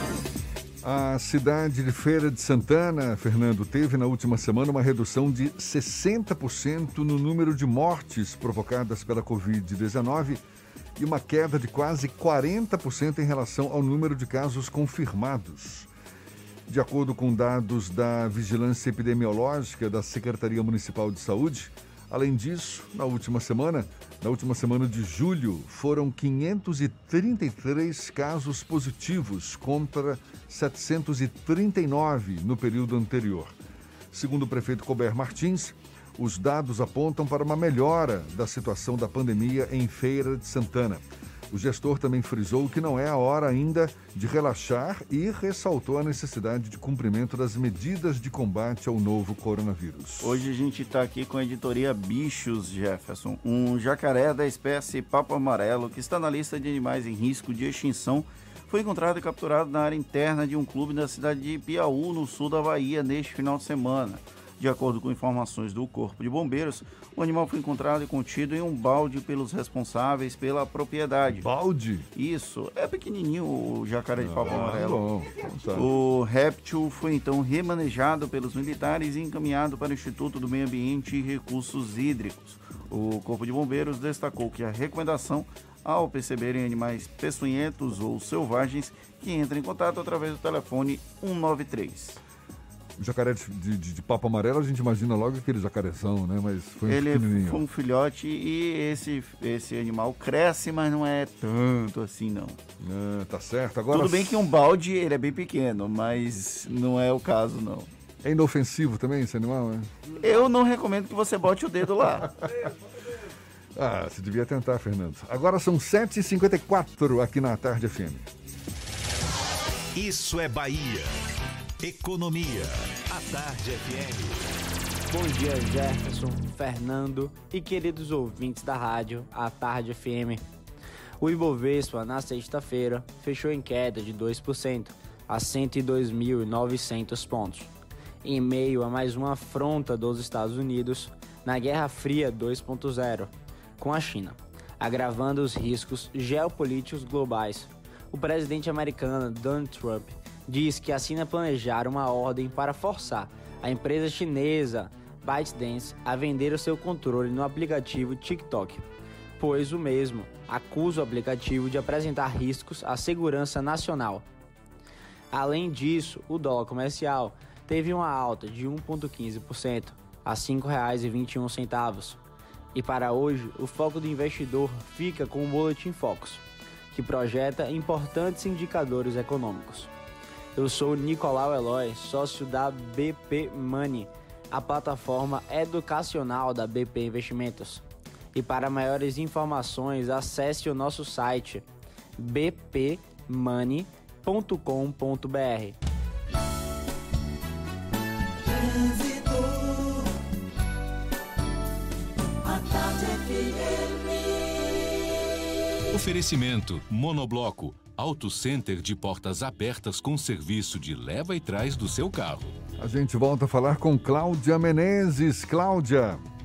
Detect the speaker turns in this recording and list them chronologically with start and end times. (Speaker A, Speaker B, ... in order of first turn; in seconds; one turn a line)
Speaker A: 0.8-10.4
Speaker A: 11.0-15.9
Speaker A: 16.7-33.5
Speaker A: 34.1-50.3
Speaker B: 50.2-71.5
Speaker A: 71.3-72.1
Speaker B: 72.2-75.1
Speaker A: 74.2-75.9
Speaker B: 75.7-92.2
Speaker A: 93.0-97.6
Speaker B: 96.9-102.6
Speaker A: 102.8-104.5
Speaker B: 103.9-107.9
Speaker A: 108.2-109.9
Speaker B: 110.2-112.3
Speaker A: 113.8-118.3
Speaker C: 120.0-121.2
Speaker C: 121.8-124.5
Speaker D: 125.1-130.4
Speaker D: 131.2-137.7
Speaker D: 138.2-158.8
Speaker D: 159.4-164.3
Speaker D: 165.3-172.2
Speaker D: 172.8-179.9
Speaker D: 180.6-187.8
Speaker D: 188.3-191.7
Speaker D: 192.2-195.8
Speaker E: 198.4-200.1
Speaker E: 202.4-204.8
Speaker F: 205.9-212.6
Speaker A: 212.8-216.2